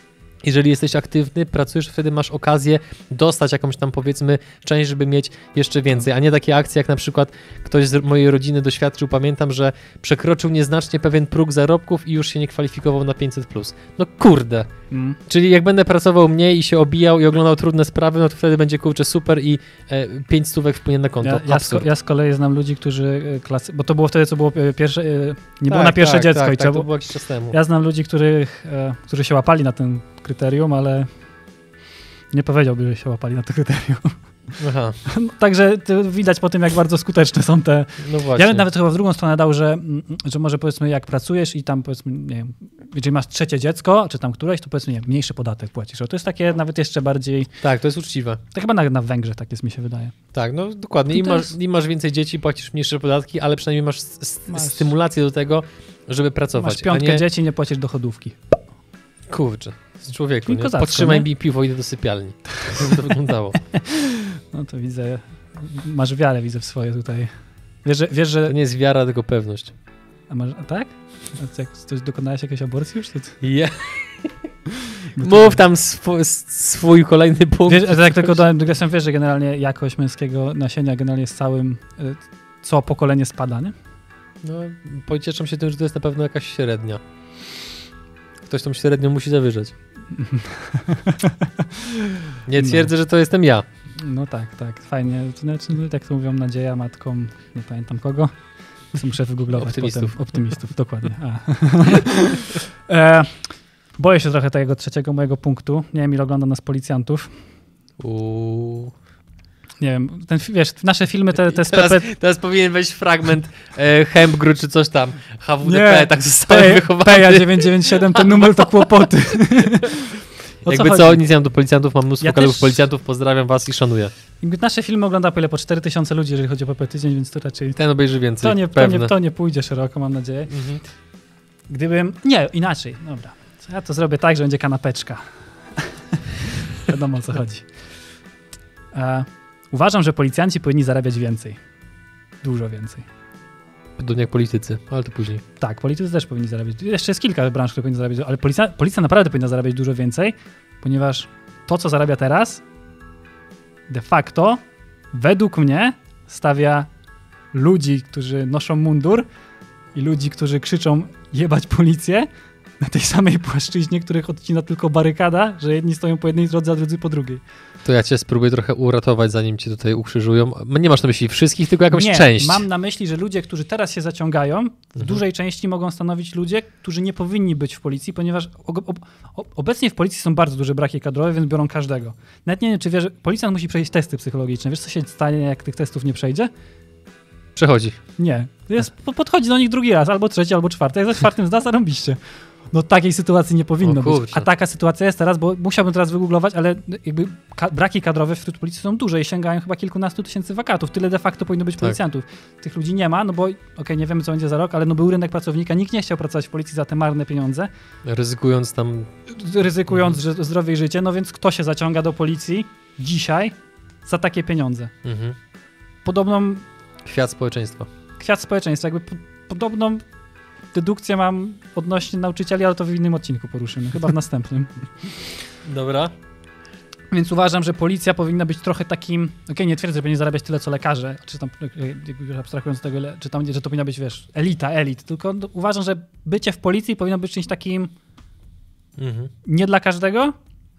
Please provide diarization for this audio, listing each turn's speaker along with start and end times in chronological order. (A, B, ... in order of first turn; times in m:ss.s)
0:00.4-0:14.7 A
0:14.9-0:15.2 B
0:15.3-0:21.9 A
0:21.2-0:26.9 B
0:25.7-0:27.6 A
0:27.5-0:31.1 B
0:32.3-0:34.6 B
0:34.6-0:35.0 A
0:35.1-0:47.5 B
0:38.0-0:38.7 A
0:47.6-0:48.4 A
0:48.5-0:50.2 B
0:50.3-0:57.2 A
0:51.1-0:51.5 B
0:54.5-0:54.9 B
0:56.6-0:58.5 B
0:59.3-1:03.7 A
1:00.5-1:01.3 B
1:03.8-1:07.3 B
1:07.8-1:08.6 B
1:08.5-1:09.7 A
1:10.3-1:13.4 B
1:13.4-1:14.4 A
1:15.2-1:15.6 B
1:15.2-1:18.4 A
1:17.7-1:23.7 B
1:24.4-1:27.0 A
1:28.5-1:29.7 A
1:30.1-1:31.9 B
1:32.4-1:33.6 A
1:32.6-1:32.9 B
1:34.0-1:47.4 B
1:39.6-1:40.6 A
1:48.0-1:48.9 A
1:49.8-1:52.1 B
1:51.5-1:58.9 A
1:55.6-2:00.1 B
2:00.6-2:01.2 B
2:00.6-2:04.1 A
2:02.2-2:02.8 B
2:04.4-2:07.8 B
2:07.8-2:09.1 A
2:08.4-2:10.5 B
2:10.5-2:10.8 A
2:11.7-2:17.7 B
2:18.9-2:21.6 B
2:22.4-2:23.1 B
2:24.0-2:25.4 A
2:25.6-2:32.6 B
2:33.9-2:36.9 B
2:37.5-2:39.3 B
2:39.9-2:42.3 B
2:42.8-2:47.4 B
2:47.8-2:52.6 A
2:51.9-3:06.5 B
3:07.6-3:08.0 A
3:08.2-3:27.7 B
3:13.8-3:14.5 A
3:28.0-3:29.1 A
3:29.3-3:34.9 B
3:35.0-3:35.4 A
3:36.0-3:36.7 B
3:37.0-3:37.9 A
3:38.2-3:40.0 B
3:40.7-3:45.2 B
3:45.6-3:46.1 A
3:47.1-3:57.9 B
3:59.0-3:59.3 A
3:59.4-4:00.3 B